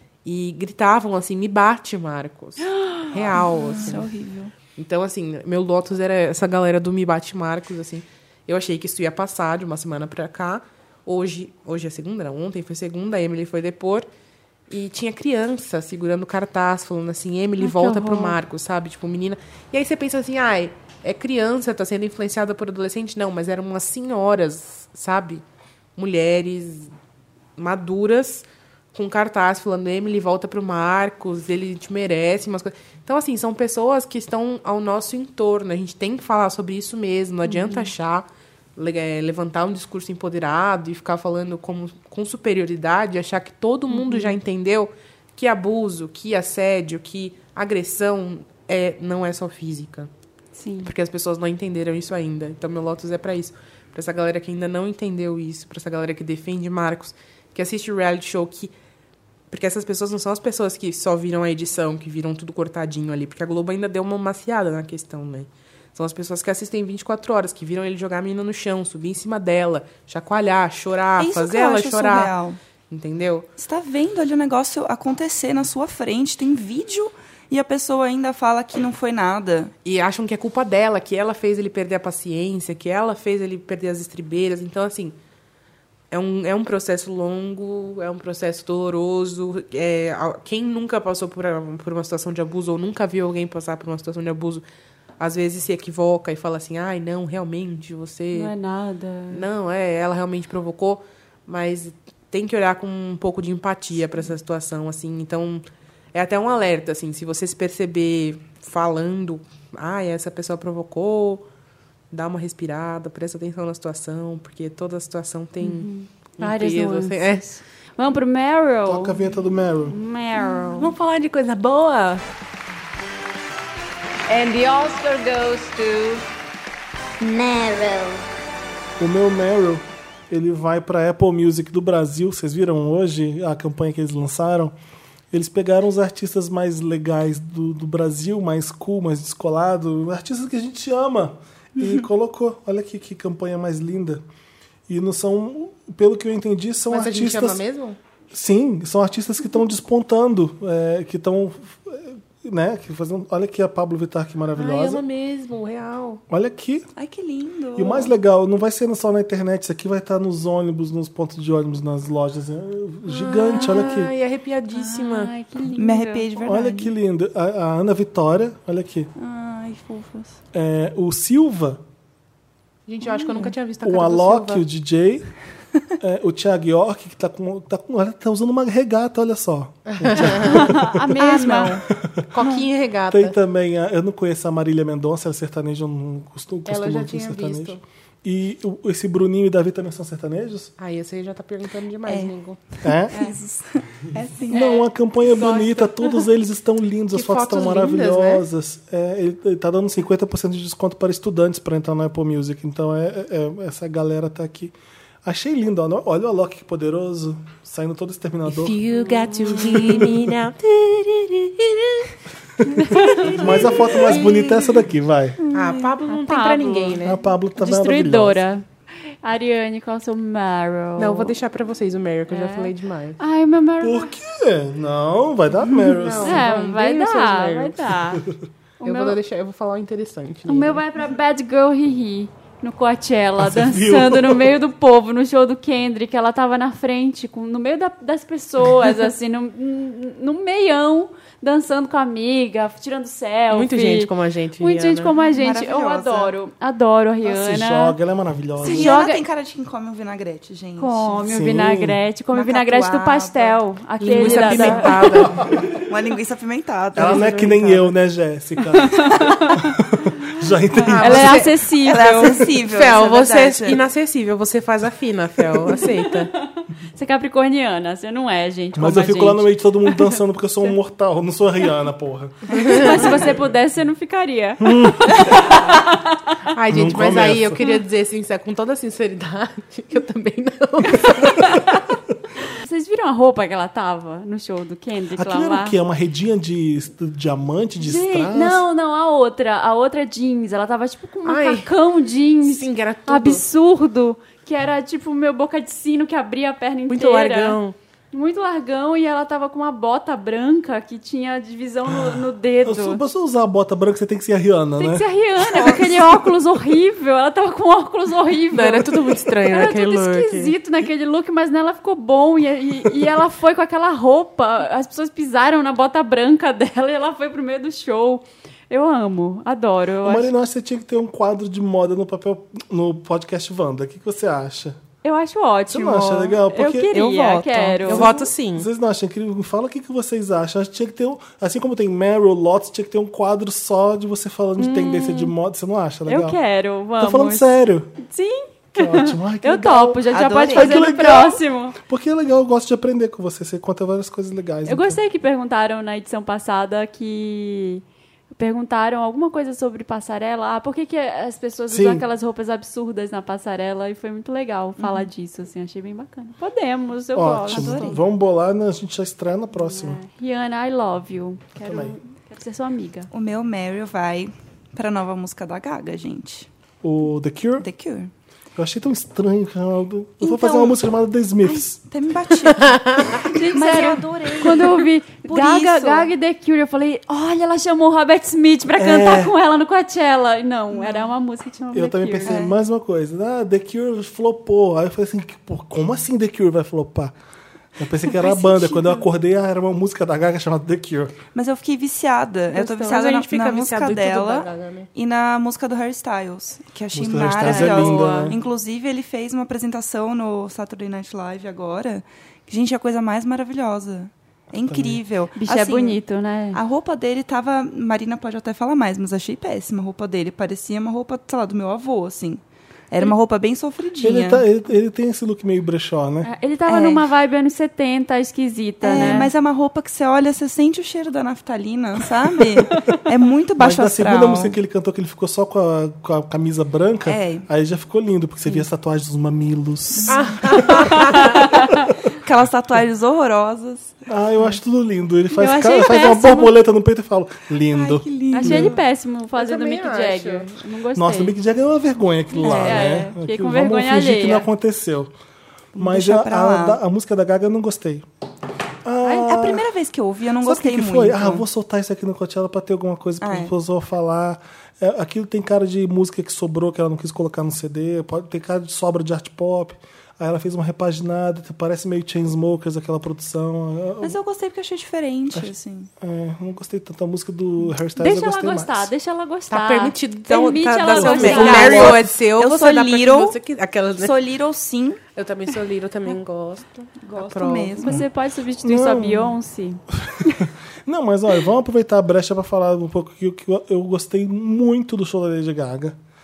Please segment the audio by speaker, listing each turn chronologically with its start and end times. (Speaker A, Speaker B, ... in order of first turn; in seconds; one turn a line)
Speaker A: 0.2-4.1
Speaker B: 2.7-3.1
Speaker C: 3.3-4.5
Speaker B: 3.7-4.1
Speaker A: 4.8-14.1
Speaker A: 14.7-25.4
Speaker B: 17.6-18.4
Speaker A: 25.9-26.9
Speaker A: 27.6-50.1
Speaker B: 37.5-37.9
Speaker B: 43.9-44.4
Speaker B: 50.5-50.9
Speaker A: 50.8-58.7
Speaker A: 59.5-72.4
Speaker C: 71.2-72.6
Speaker A: 72.9-73.5
Speaker C: 73.6-79.7
Speaker A: 79.8-85.2
Speaker A: 86.1-94.6
Speaker A: 95.2-98.5
Speaker B: 98.3-99.5
Speaker A: 99.3-111.4
Speaker A: 112.1-117.5
Speaker B: 115.6-119.3
Speaker D: 118.8-120.0
Speaker B: 119.8-120.9
Speaker A: 120.4-122.2
Speaker E: 124.3-126.2
Speaker E: 127.2-128.2
Speaker D: 129.0-134.7
Speaker D: 135.3-144.2
Speaker D: 144.9-147.6
Speaker A: 146.9-148.0
Speaker D: 148.3-155.0
Speaker A: 154.6-156.2
Speaker D: 156.3-156.9
Speaker C: 156.9-158.1
Speaker D: 157.7-164.1
Speaker A: 163.1-165.3
Speaker B: 163.5-163.9
Speaker B: 164.7-166.3
Speaker C: 165.6-166.9
Speaker D: 166.4-169.1
Speaker C: 169.2-170.4
Speaker D: 170.5-171.8
Speaker A: 172.9-174.6
Speaker B: 173.1-173.5
Speaker D: 173.8-175.3
Speaker D: 176.0-181.0
Speaker A: 179.9-181.7
Speaker B: 180.2-181.8
Speaker C: 181.2-181.8
Speaker A: 182.3-183.3
Speaker B: 182.4-182.7
Speaker D: 183.1-190.7
Speaker A: 186.7-187.8
Speaker A: 190.8-192.7
Speaker C: 192.1-194.8
Speaker D: 192.8-193.2
Speaker D: 194.5-208.9
Speaker B: 194.5-195.9
Speaker A: 197.1-198.4
Speaker A: 208.5-212.0
Speaker B: 208.9-209.8
Speaker D: 209.4-210.3
Speaker D: 212.6-215.4
Speaker A: 212.8-214.2
Speaker B: 213.0-213.4
Speaker A: 215.5-217.2
Speaker B: 216.0-217.1
Speaker D: 217.0-218.4
Speaker B: 217.6-218.6
Speaker B: 219.2-221.4
Speaker A: 221.0-223.2
Speaker B: 222.3-224.1
Speaker D: 223.8-226.4
Speaker A: 225.8-227.9
Speaker B: 226.2-228.2
Speaker B: 228.8-229.2
Speaker A: 228.8-230.8
Speaker B: 230.5-248.0
Speaker D: 233.4-234.6
Speaker A: 243.5-245.1
Speaker C: 245.3-246.3
Speaker D: 247.2-248.9
Speaker B: 248.6-249.2
Speaker C: 248.6-251.3
Speaker B: 250.8-255.2
Speaker D: 251.2-252.0
Speaker C: 252.3-253.6
Speaker A: 254.0-255.4
Speaker C: 254.1-255.1
Speaker C: 255.8-257.5
Speaker D: 256.9-261.5
Speaker A: 257.0-257.9
Speaker B: 258.7-259.8
Speaker A: 260.8-266.3
Speaker B: 261.0-262.5
Speaker C: 261.7-263.8
Speaker B: 266.0-270.7
Speaker D: 268.7-273.2
Speaker B: 272.5-276.4
Speaker A: 272.5-273.0
Speaker D: 274.6-275.4
Speaker A: 276.5-281.5
Speaker D: 276.7-277.6
Speaker B: 281.2-281.8
Speaker B: 282.5-285.8
Speaker D: 285.1-288.6
Speaker B: 287.8-297.6
Speaker A: 291.2-291.7
Speaker A: 292.4-293.4
Speaker A: 296.9-297.8
Speaker B: 298.1-303.0
Speaker D: 301.9-305.7
Speaker B: 304.8-320.3
Speaker A: 308.5-310.5
Speaker D: 320.0-324.8
Speaker B: 325.0-328.2
Speaker D: 325.7-326.9
Speaker C: 326.9-328.2
Speaker A: 327.9-328.7
Speaker D: 328.5-336.4
Speaker B: 334.6-335.3
Speaker B: 336.1-337.5
Speaker D: 337.0-337.9
Speaker B: 338.0-341.8
Speaker D: 338.7-345.0
Speaker C: 340.1-340.9
Speaker B: 344.6-347.8
Speaker B: 348.4-358.0
Speaker D: 351.7-352.0
Speaker C: 354.8-355.1
Speaker D: 357.1-360.0
Speaker C: 357.5-358.0
Speaker B: 359.5-363.1
Speaker D: 361.6-361.9
Speaker C: 363.1-366.5
Speaker D: 366.8-367.6
Speaker C: 367.6-368.1
Speaker D: 368.6-371.8
Speaker C: 370.2-370.8
Speaker C: 371.4-376.1
Speaker A: 372.5-373.2
Speaker B: 373.2-382.4
Speaker D: 378.7-379.3
Speaker C: 380.7-381.1
Speaker D: 381.7-387.1
Speaker C: 382.2-382.5
Speaker D: 387.8-391.2
Speaker C: 388.1-389.0
Speaker C: 391.3-406.0
Speaker A: 392.5-394.9
Speaker D: 396.9-398.4
Speaker B: 397.4-398.3
Speaker D: 404.6-405.0
Speaker B: 405.3-406.6
Speaker C: 406.5-414.4
Speaker D: 414.0-416.3
Speaker B: 416.2-419.3
Speaker C: 416.6-417.1
Speaker C: 418.8-424.5
Speaker D: 418.9-419.3
Speaker D: 423.6-431.1
Speaker C: 427.1-427.5
Speaker A: 430.1-431.3
Speaker C: 430.8-431.4
Speaker C: 432.2-434.0
Speaker D: 434.1-438.8
Speaker B: 435.3-436.5
Speaker C: 437.7-438.8
Speaker B: 438.3-441.4
Speaker A: 439.4-440.5
Speaker D: 440.9-445.1
Speaker B: 442.3-444.5
Speaker C: 442.4-443.0
Speaker C: 445.7-446.8
Speaker D: 445.8-448.1
Speaker D: 448.8-449.7
Speaker C: 449.0-451.4
Speaker D: 450.4-464.2
Speaker C: 453.2-453.5
Speaker C: 464.0-465.9
Speaker D: 465.3-468.9
Speaker B: 468.0-471.9
Speaker A: 469.5-474.2
Speaker C: 470.9-473.4
Speaker D: 471.2-472.0
Speaker C: 474.0-475.0
Speaker A: 475.1-478.0
Speaker C: 477.1-478.0
Speaker B: 477.8-480.4
Speaker D: 478.6-479.4
Speaker D: 479.9-486.0